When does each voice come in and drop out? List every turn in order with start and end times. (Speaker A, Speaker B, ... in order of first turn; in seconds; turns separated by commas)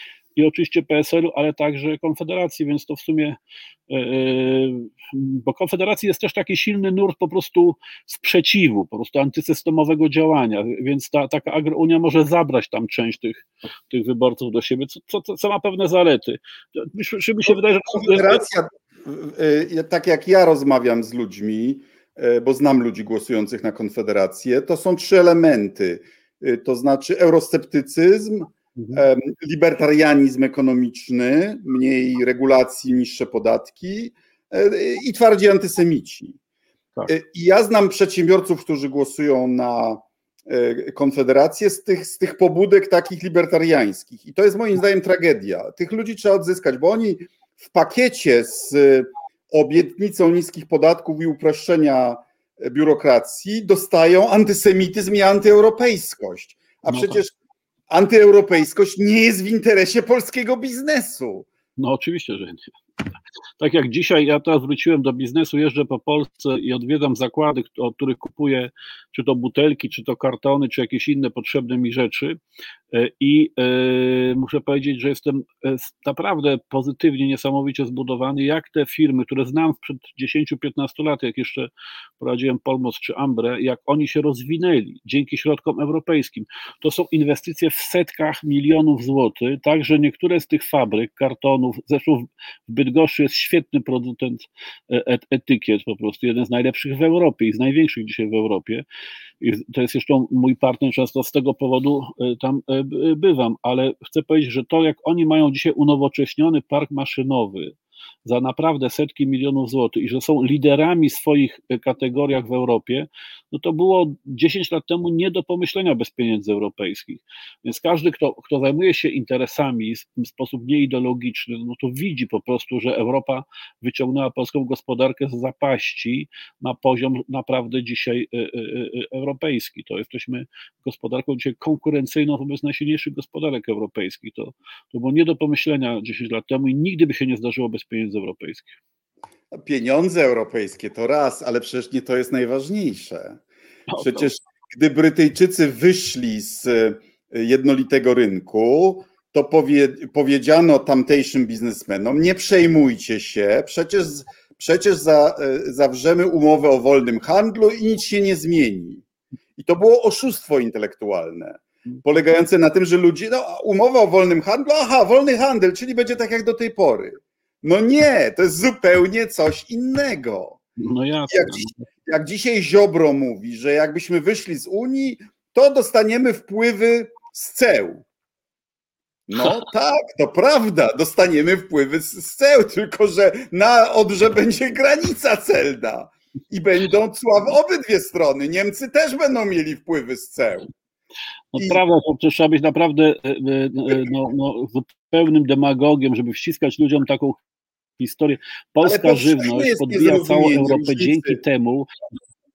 Speaker A: 0.4-3.4, Speaker A: 3.9-18.4, Speaker B: 17.5-36.4, Speaker A: 28.8-29.0, Speaker B: 37.1-57.3, Speaker A: 56.9-57.2, Speaker B: 57.9-61.5, Speaker A: 61.8-62.7, Speaker A: 63.6-72.4, Speaker A: 72.9-81.7, Speaker A: 82.2-98.8, Speaker A: 99.4-107.7, Speaker A: 108.2-138.7, Speaker B: 139.5-143.4, Speaker A: 143.9-144.3, Speaker B: 144.0-159.0, Speaker B: 159.6-170.6, Speaker A: 170.8-171.8, Speaker B: 171.3-178.1, Speaker B: 179.3-190.7, Speaker A: 191.5-197.4, Speaker A: 198.0-201.9, Speaker B: 198.8-201.4